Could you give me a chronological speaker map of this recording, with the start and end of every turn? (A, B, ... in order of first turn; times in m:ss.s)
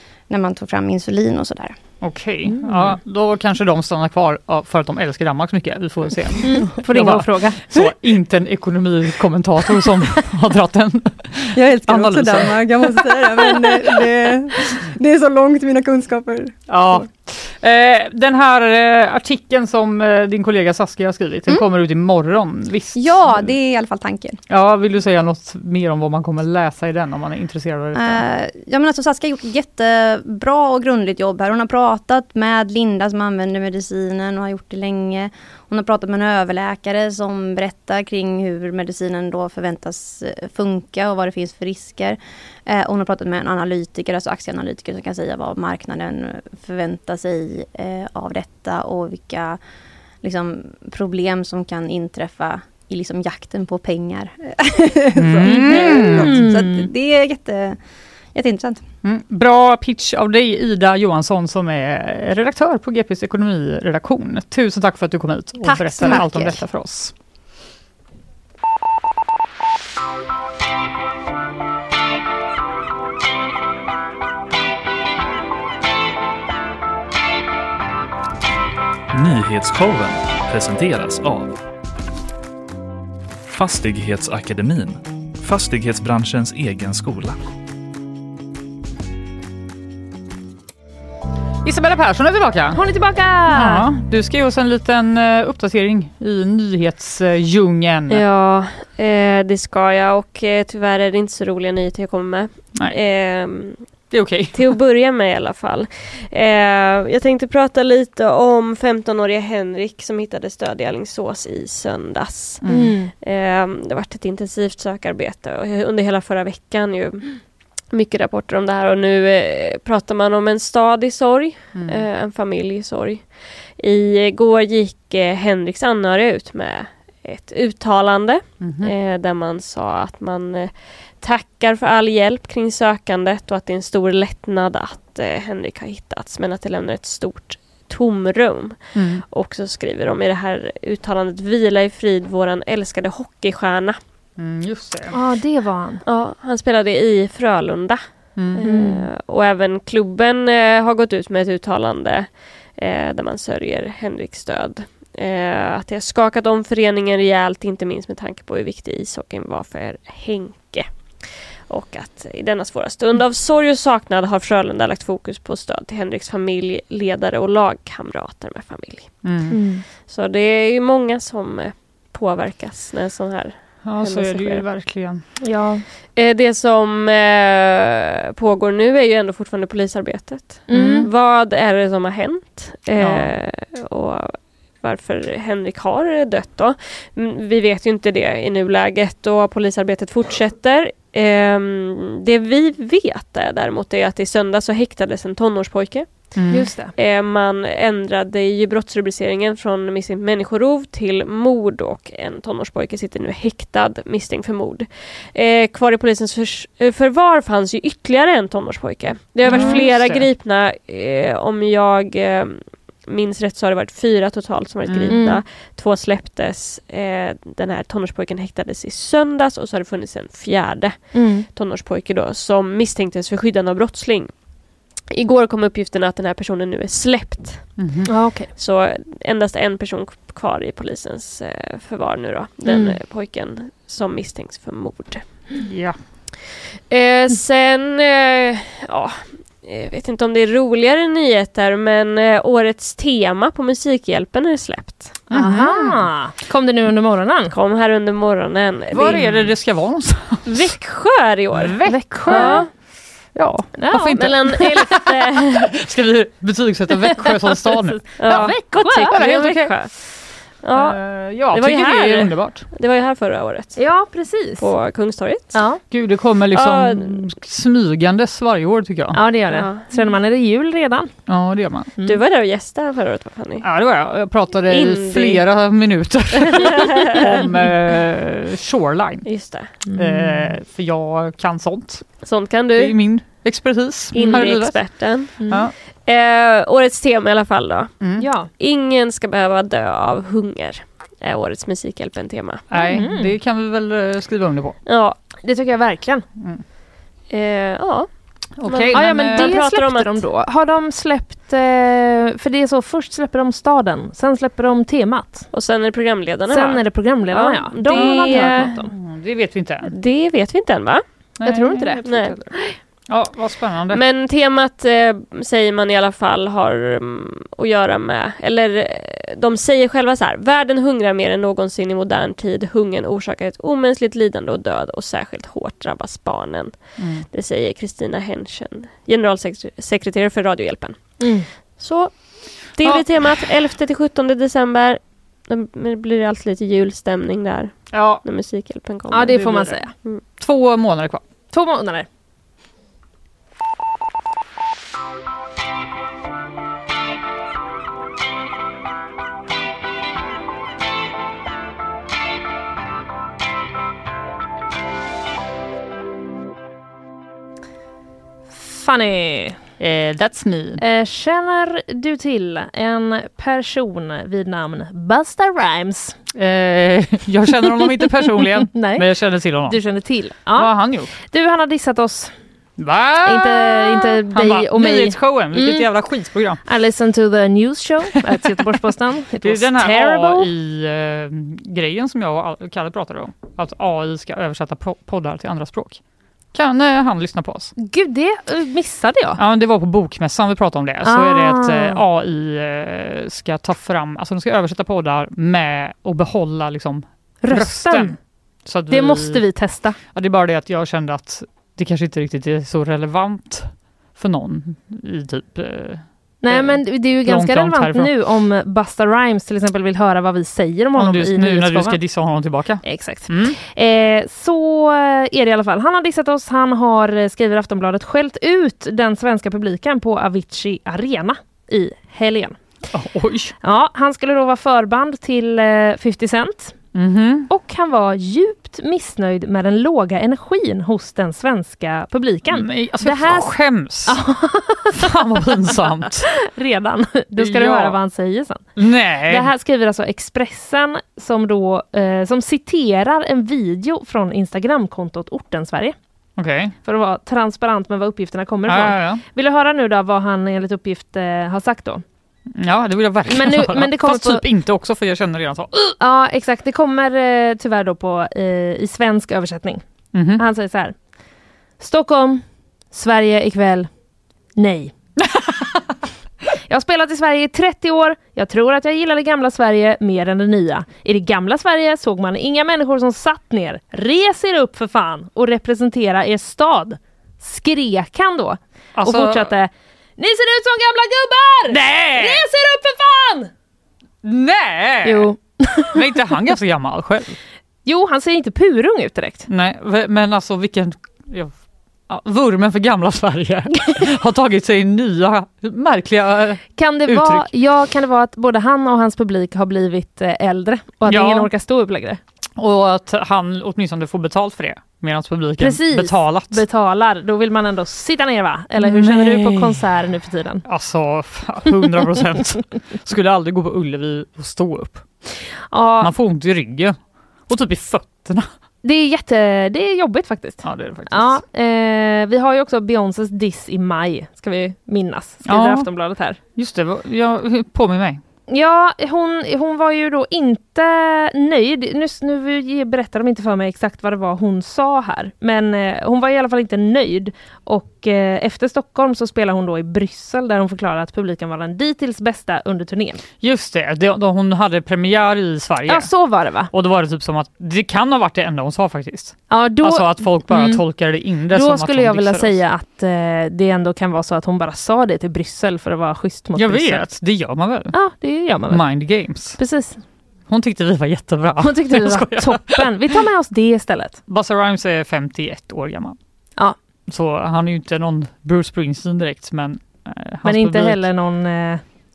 0:00.3-0:01.8 A
0:02.0-0:13.8 B
0:06.4-0:07.7 C
0:11.5-0:17.0 A
0:16.7-0:23.5 B
0:23.0-0:24.4 A
0:24.5-0:28.2 B
0:28.0-0:49.6 A
0:50.2-0:57.8 A
0:55.2-0:56.4 B
0:55.5-0:56.9 C
0:58.3-0:58.8 A
0:59.0-1:07.1 B
1:05.6-1:06.6 A
1:19.1-1:21.6 D
1:23.5-1:27.4 D
1:31.6-1:32.8 B
1:32.7-1:33.9 C
1:33.5-1:38.2 B
1:38.1-1:44.0 E
1:44.1-1:44.7 B
1:44.5-2:24.0 E
1:52.6-1:53.0 B
1:52.7-1:53.1 C
2:01.8-2:02.0 B
2:08.6-2:08.9 B
2:18.9-2:19.2 B
2:24.4-2:25.2 B
2:25.1-2:26.0 C
2:26.0-2:49.5 E
2:28.4-2:28.6 B
2:28.6-2:29.1 C
2:49.2-2:49.6 B
2:49.5-2:49.8 C
2:50.0-2:54.6 E
2:53.8-2:55.2 B
2:55.4-2:55.8 C
2:56.2-3:44.4 E
3:00.7-3:01.1 C
3:00.7-3:01.1 B
3:03.0-3:03.3 B
3:16.4-3:16.7 B
3:16.5-3:16.9 C
3:29.4-3:30.3 B
3:29.5-3:29.9 C
3:34.9-3:35.2 B
3:35.1-3:35.4 C
3:41.1-3:41.5 C
3:45.1-3:47.9 E
3:47.8-3:48.1 B
3:48.1-3:48.5 C
3:48.5-3:55.4 E
3:52.7-3:53.0 C
3:55.6-3:56.0 B
3:56.9-4:05.3 E
4:05.3-4:06.1 B
4:05.3-4:07.5 C
4:07.5-4:09.5 E
4:08.9-4:10.7 B
4:10.5-4:12.7 E
4:11.5-4:12.7 B
4:11.9-4:12.7 C
4:13.3-4:19.9 B
4:13.8-4:14.6 C
4:14.2-4:15.7 E
4:18.2-4:19.2 C
4:18.2-4:21.0 E
4:20.7-4:22.7 B
4:21.5-4:23.8 E
4:23.8-4:24.7 C
4:24.6-4:25.6 E
4:25.5-4:25.8 C
4:25.9-4:29.2 B
4:26.5-4:27.2 E
4:29.1-4:31.1 C
4:29.5-4:29.9 E
4:31.3-4:31.9 B
4:32.0-4:33.7 E
4:33.6-4:39.3 B
4:34.7-4:35.4 E
4:36.5-4:37.5 E
4:39.3-4:39.7 E
4:39.9-4:40.6 C
4:40.0-4:42.2 B
4:42.2-4:43.0 E
4:42.7-4:44.9 B
4:44.1-4:45.4 E
4:44.2-4:44.4 C
4:45.4-4:45.7 C
4:45.4-4:45.7 B
4:46.1-4:48.0 E
4:48.0-4:48.3 B
4:48.2-4:48.5 C
4:48.5-4:52.7 E
4:52.7-4:54.8 B
4:52.8-4:53.4 C
4:54.9-4:55.2 E
4:55.4-4:56.2 C
4:56.4-4:56.6 B
4:57.3-4:58.1 E
4:58.6-4:59.6 B
4:58.6-5:00.3 E
4:58.9-5:05.5 C
5:05.5-5:08.8 E
5:06.5-5:08.9 C
5:07.9-5:09.9 B
5:09.9-5:11.0 E
5:11.4-5:12.6 B
5:11.4-5:12.1 C
5:12.0-5:12.4 E
5:13.1-5:14.0 B
5:13.9-5:39.5 E
5:27.0-5:27.2 B
5:31.2-5:31.5 C
5:32.8-5:33.0 B
5:37.9-5:38.2 B
5:39.1-5:39.9 C
5:39.3-5:39.8 B
5:40.4-5:41.2 B
5:41.5-5:42.1 C
5:58.5-5:59.6 C
5:59.8-6:00.8 B
6:00.8-6:06.2 C
6:06.3-6:09.8 B
6:08.0-6:09.1 C
6:09.6-6:12.3 C
6:10.5-6:11.1 B
6:12.8-6:16.6 B
6:13.2-6:15.9 C
6:16.6-6:20.5 C
6:18.3-6:18.6 B
6:19.4-6:26.0 B
6:26.5-6:27.7 B
6:27.8-6:29.4 C
6:29.4-6:39.4 B
6:31.0-6:32.0 C
6:37.4-6:38.2 C
6:38.9-6:40.0 C
6:40.1-6:48.1 B
6:46.4-6:52.0 C
6:51.0-6:53.6 B
6:52.8-7:02.6 C
7:02.9-7:03.6 B
7:03.6-7:06.8 C
7:06.9-7:07.5 B
7:07.5-7:13.5 C
7:12.5-7:14.2 B
7:14.0-7:15.8 C
7:14.9-7:16.3 B
7:16.4-7:18.6 C
7:17.4-7:18.0 B
7:18.8-7:19.5 B
7:19.3-7:26.0 C
7:26.4-7:26.8 B
7:26.8-7:32.0 C
7:28.7-7:29.2 B
7:32.5-7:35.9 B
7:33.3-7:34.5 C
7:36.0-7:39.8 C
7:40.1-7:40.4 B
7:40.4-7:41.0 C
7:41.8-7:43.9 C
7:44.6-7:44.9 C
7:45.2-7:45.8 B
7:46.7-8:03.5 C
7:59.0-7:59.5 B
8:01.7-8:02.5 B
8:04.2-8:05.3 B
8:05.0-8:06.3 C
8:05.9-8:07.4 B
8:07.8-8:09.5 C
8:09.5-8:11.6 B
8:12.1-8:17.5 B
8:16.8-8:22.2 C
8:21.1-8:21.5 B
8:22.6-8:26.6 B
8:25.6-8:30.6 C
8:28.8-8:29.8 B
8:30.6-8:35.0 B
8:35.7-8:36.1 C
8:36.0-8:38.5 B
8:38.8-8:46.4 C
8:40.6-8:41.4 B
8:45.4-8:45.9 B
8:46.6-8:48.2 B
8:48.5-9:03.2 C
9:03.4-9:06.1 B
9:05.9-9:06.7 C
9:06.7-9:12.6 B
9:09.5-9:10.8 C
9:11.5-9:17.1 C
9:16.6-9:18.0 B
9:17.9-9:18.8 C
9:18.7-9:19.6 B
9:19.6-9:20.0 C
9:20.5-9:23.2 B
9:21.6-9:24.2 C
9:24.3-9:26.2 B
9:27.1-9:31.0 B
9:30.4-9:31.8 C